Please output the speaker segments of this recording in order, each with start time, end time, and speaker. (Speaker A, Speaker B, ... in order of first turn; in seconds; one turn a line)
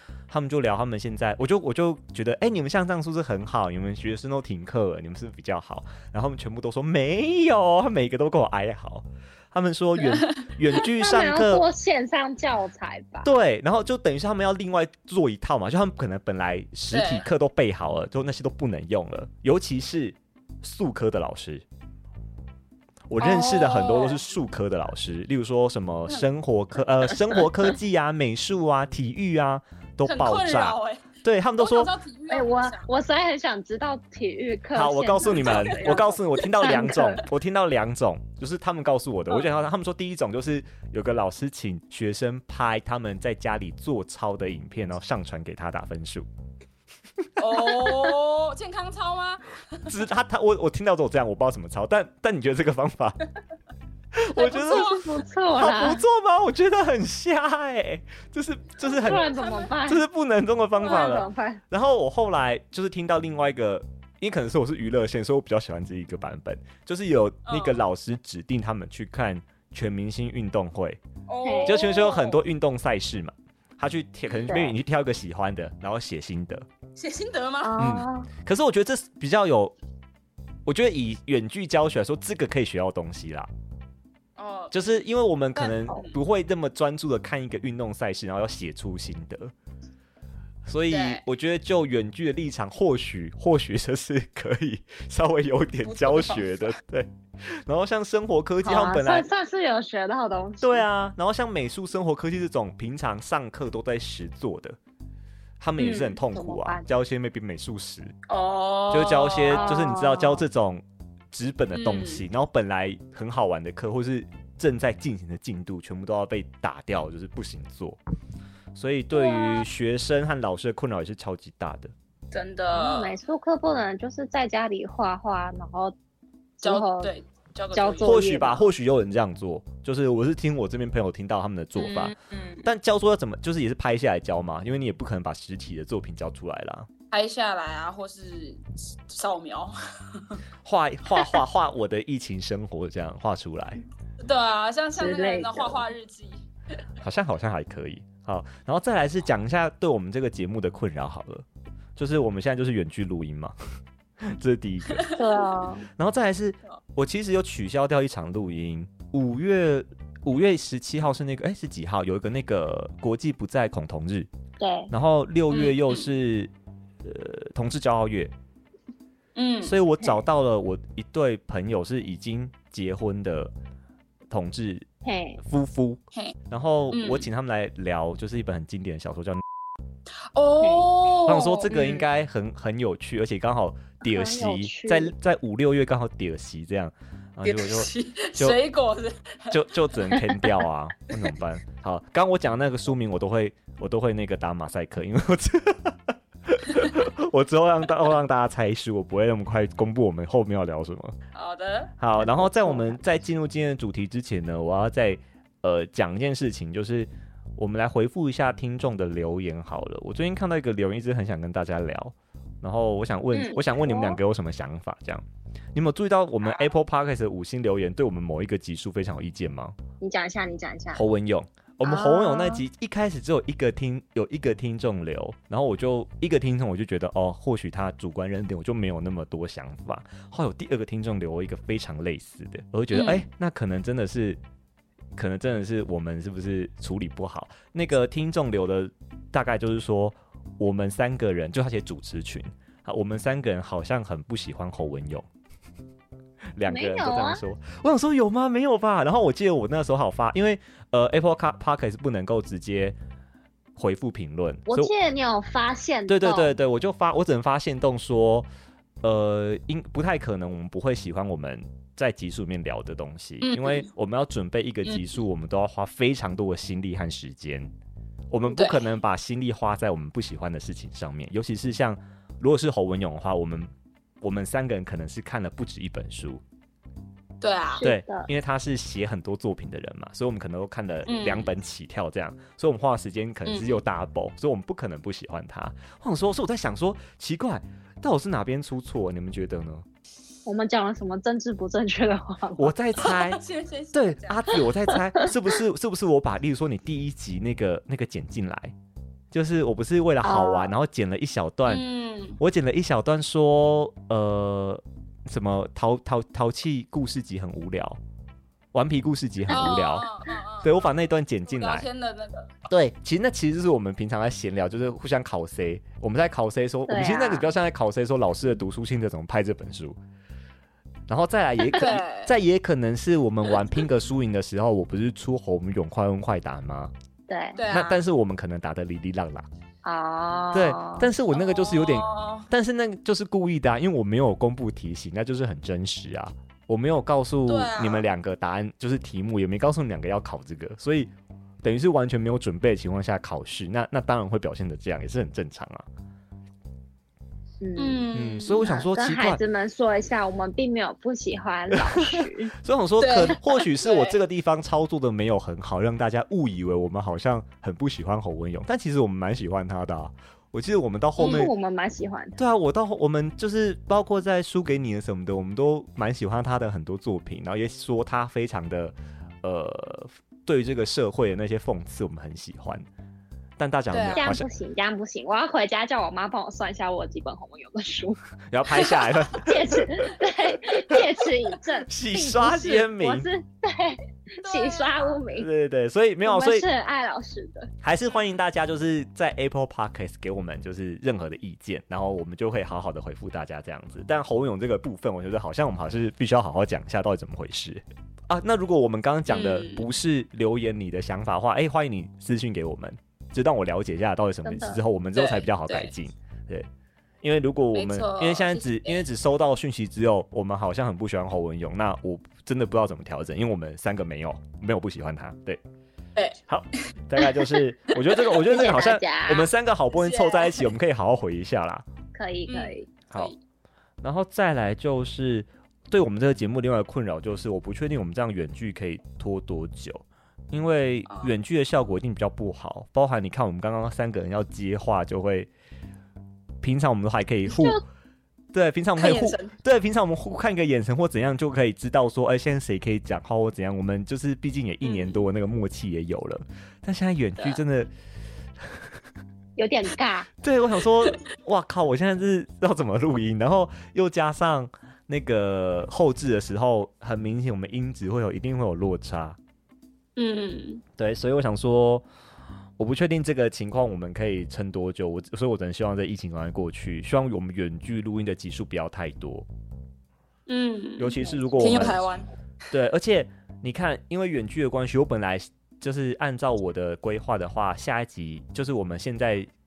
Speaker A: 0.3-11.6
Speaker B: 10.0-10.5
Speaker C: 11.0-13.3
Speaker A: 13.2-21.6
Speaker B: 16.9-17.3
Speaker A: 23.1-31.9
Speaker B: 23.2-24.2
Speaker B: 30.0-32.9
Speaker C: 32.3-37.2
Speaker A: 34.7-46.2
Speaker B: 35.2-36.0
Speaker A: 47.2-48.1
Speaker B: 47.4-50.0
Speaker A: 49.9-53.2
Speaker A: 54.1-54.9
Speaker B: 54.4-55.1
Speaker C: 54.5-56.0
Speaker A: 55.6-59.3
Speaker B: 58.8-59.7
Speaker C: 58.8-60.0
Speaker A: 59.8-71.0
Speaker C: 60.8-61.6
Speaker B: 60.9-61.2
Speaker B: 67.5-67.8
Speaker B: 71.3-72.4
Speaker C: 71.4-71.8
Speaker A: 71.7-76.7
Speaker B: 74.3-74.6
Speaker C: 74.5-74.7
Speaker B: 77.0-77.8
Speaker C: 77.6-78.3
Speaker A: 77.8-79.7
Speaker A: 80.7-83.5
Speaker B: 84.4-85.0
Speaker A: 84.7-89.5
Speaker B: 85.5-86.2
Speaker A: 90.7-99.3
Speaker B: 90.9-91.2
Speaker B: 95.8-96.8
Speaker C: 98.6-100.8
Speaker A: 100.6-104.8
Speaker A: 105.6-108.1
Speaker B: 105.8-106.2
Speaker C: 106.3-106.9
Speaker B: 108.3-110.1
Speaker A: 108.9-118.0
Speaker C: 109.5-110.4
Speaker B: 111.7-112.2
Speaker A: 118.7-121.9
Speaker B: 119.1-119.6
Speaker B: 122.3-123.2
Speaker C: 122.7-125.9
Speaker C: 126.6-127.1
Speaker B: 126.6-128.2
Speaker C: 127.7-128.7
Speaker A: 128.0-136.9
Speaker B: 131.8-132.7
Speaker B: 137.1-140.4
Speaker A: 140.6-143.8
Speaker B: 144.2-146.4
Speaker C: 144.9-145.8
Speaker A: 147.0-151.4
Speaker A: 151.9-153.5
Speaker A: 154.2-155.1
Speaker B: 154.9-155.2
Speaker C: 155.2-155.9
Speaker A: 155.9-164.3
Speaker C: 164.6-164.9
Speaker A: 164.9-166.5
Speaker B: 165.5-166.1
Speaker A: 167.0-168.3
Speaker B: 169.3-169.8
Speaker A: 169.6-173.5
Speaker A: 174.3-174.8
Speaker C: 175.0-175.4
Speaker A: 175.4-179.4
Speaker B: 176.9-177.3
Speaker B: 180.2-182.1
Speaker A: 181.2-188.6
Speaker C: 184.0-185.1
Speaker B: 187.4-190.6
Speaker A: 189.5-201.2
Speaker B: 201.3-201.9
Speaker A: 202.0-219.8
Speaker C: 202.2-203.0
Speaker C: 213.3-214.2
Speaker C: 220.0-221.0
Speaker A: 220.9-234.4
Speaker C: 221.8-222.6
Speaker B: 232.9-233.2
Speaker A: 235.2-245.3
Speaker A: 246.6-252.9
Speaker C: 246.7-247.4
Speaker A: 253.8-254.9
Speaker C: 254.7-256.5
Speaker A: 256.1-258.5
Speaker A: 259.0-267.7
Speaker B: 263.4-263.9
Speaker A: 268.3-273.7
Speaker B: 268.5-268.8
Speaker A: 274.2-276.4
Speaker B: 277.4-277.8
Speaker C: 277.8-278.3
Speaker A: 277.8-289.9
Speaker B: 281.1-281.5
Speaker B: 283.4-283.8
Speaker C: 290.4-292.7
Speaker A: 292.6-293.4
Speaker B: 293.0-294.7
Speaker A: 293.9-298.7
Speaker A: 299.3-301.9
Speaker C: 300.2-300.7
Speaker B: 301.7-302.4
Speaker A: 302.4-308.0
Speaker A: 308.7-310.1
Speaker B: 309.5-312.5
Speaker A: 310.6-311.9
Speaker A: 312.7-320.0
Speaker C: 316.9-317.5
Speaker A: 321.1-326.9
Speaker B: 321.7-322.3
Speaker C: 327.3-327.6
Speaker B: 327.6-328.0
Speaker A: 327.7-329.5
Speaker C: 329.8-331.1
Speaker A: 330.5-341.1
Speaker B: 331.3-332.5
Speaker B: 337.5-338.1
Speaker A: 341.6-345.9
Speaker C: 347.6-348.1
Speaker B: 347.8-348.7
Speaker A: 348.1-349.4
Speaker C: 348.6-352.5
Speaker A: 351.7-361.5
Speaker B: 353.0-354.1
Speaker B: 361.2-361.5
Speaker C: 361.2-362.4
Speaker A: 362.4-372.9
Speaker A: 373.6-374.5
Speaker B: 373.9-374.3
Speaker C: 374.1-378.2
Speaker A: 378.5-380.1
Speaker C: 379.4-385.5
Speaker A: 381.9-383.3
Speaker B: 384.4-385.2
Speaker A: 385.4-386.6
Speaker C: 386.2-387.7
Speaker A: 387.8-406.7
Speaker B: 399.3-399.9
Speaker C: 404.4-404.8
Speaker B: 405.1-405.9
Speaker A: 407.2-415.6
Speaker B: 407.7-409.0
Speaker A: 416.5-421.9
Speaker B: 417.2-418.5
Speaker C: 418.5-419.5
Speaker B: 419.9-420.7
Speaker C: 422.1-422.9
Speaker B: 422.5-423.4
Speaker A: 424.0-435.5
Speaker B: 431.1-431.3
Speaker A: 436.6-437.8
Speaker A: 438.5-447.9
Speaker B: 439.0-439.6
Speaker B: 444.8-445.2
Speaker C: 449.6-450.3
Speaker A: 450.4-459.4
Speaker B: 460.2-460.8
Speaker A: 461.0-462.0
Speaker A: 462.8-469.5
Speaker B: 470.5-472.3
Speaker A: 471.0-472.0
Speaker A: 472.7-479.5